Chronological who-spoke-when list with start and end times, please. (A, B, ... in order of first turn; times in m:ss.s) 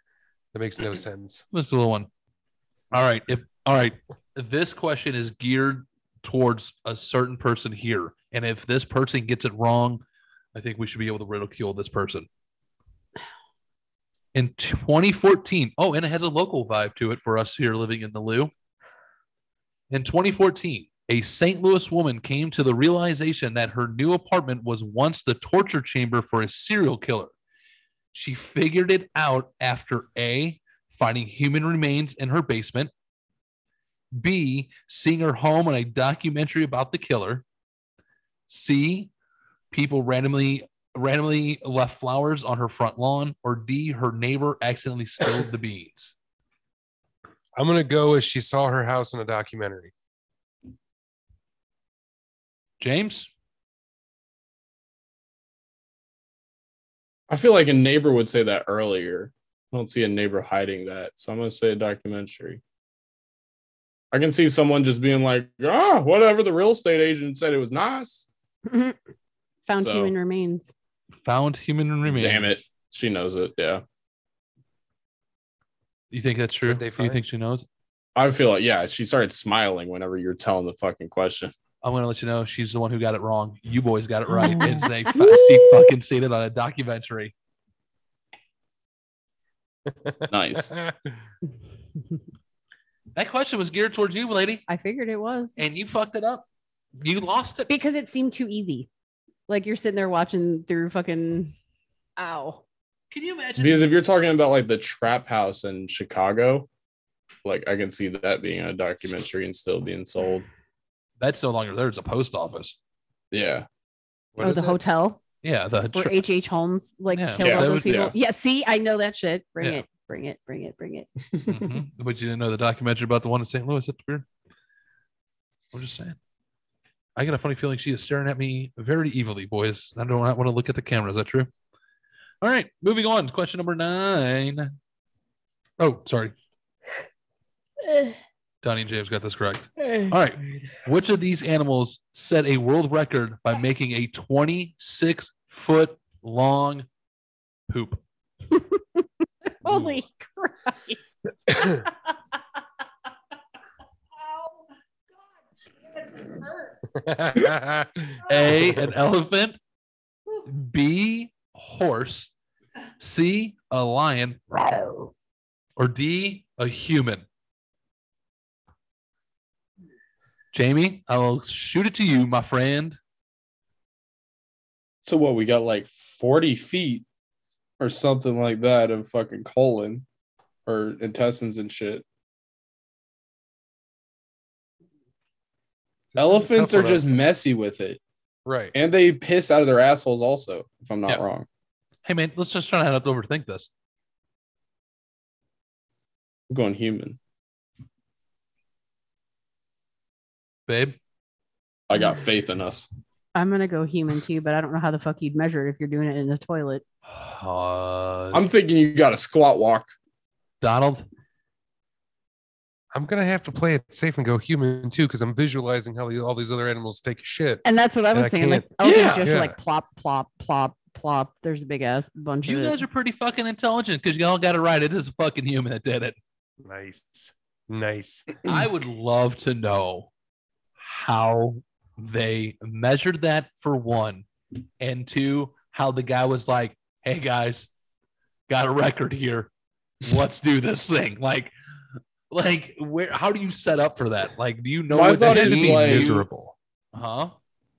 0:00.5-0:01.4 A
0:01.5-0:02.1 B
0:02.9-0:10.0 B
0:10.5-0:12.3 B
0:14.3-0:18.5 B
0:19.9-0:27.3 B
0:28.1-0:32.9 B
0:34.2-0:37.4 B
0:38.5-0:39.1 B
0:39.7-0:46.1 B
0:47.6-0:49.9 A
0:52.8-0:53.3 B
0:57.3-1:02.6 C
1:04.1-1:08.3 C
1:08.6-1:09.0 D
1:09.6-1:10.7 D
1:09.8-1:10.1 C
1:11.2-1:12.6 B
1:12.0-1:13.8 C
1:16.1-1:17.6 B
1:16.6-1:17.2 A
1:18.1-1:21.5 C
1:21.8-1:27.3 B
1:24.5-1:24.8 A
1:25.1-1:25.6 D
1:29.9-1:31.1 A
1:30.3-1:30.8 C
1:33.1-1:34.6 B
1:34.7-1:35.6 D
1:35.6-1:36.4 B
1:37.0-1:37.7 B
1:37.7-1:38.9 D
1:39.5-1:41.5 D
1:42.2-1:42.6 D
1:43.1-1:43.9 B
1:43.6-1:46.7 C
1:47.4-1:50.4 C
1:51.2-1:52.8 B
1:53.3-1:53.6 C
1:54.3-1:54.8 A
1:54.4-1:55.2 D
1:55.4-1:56.2 B
1:55.9-2:01.1 D
1:57.1-1:57.9 B
1:57.4-1:58.1 C
2:01.5-2:04.2 B
2:05.7-2:06.2 B
2:07.2-2:11.5 B
2:12.4-2:14.7 B
2:15.8-2:16.3 B
2:18.6-2:26.8 B
2:27.7-2:28.0 B
2:28.5-2:29.0 D
2:29.6-2:31.9 D
2:36.0-2:36.7 D
2:36.9-2:38.2 A
2:38.2-2:39.6 B
2:40.4-2:42.3 B
2:43.0-2:45.1 B
2:45.8-2:47.2 B
2:50.5-2:53.0 B
2:55.0-2:57.0 C
2:57.8-3:00.0 C
3:00.6-3:02.0 C
3:06.1-3:07.1 A
3:06.2-3:08.0 C
3:08.4-3:08.7 A
3:08.7-3:11.4 C
3:12.0-3:13.7 B
3:16.5-3:17.2 C
3:20.7-3:21.0 B
3:21.9-3:22.9 C
3:23.3-3:26.8 D
3:27.1-3:28.4 B
3:28.3-3:29.9 C
3:30.6-3:31.0 B
3:32.9-3:39.6 A
3:37.6-3:42.8 D
3:38.8-3:39.3 C
3:42.4-3:46.2 B
3:46.6-3:48.3 A
3:48.4-3:50.1 B
3:50.8-3:54.3 B
3:54.8-3:57.7 B
3:58.5-3:59.5 B
4:00.0-4:01.5 B
4:02.3-4:06.3 B
4:04.9-4:06.2 C
4:05.2-4:06.5 A
4:06.9-4:07.3 B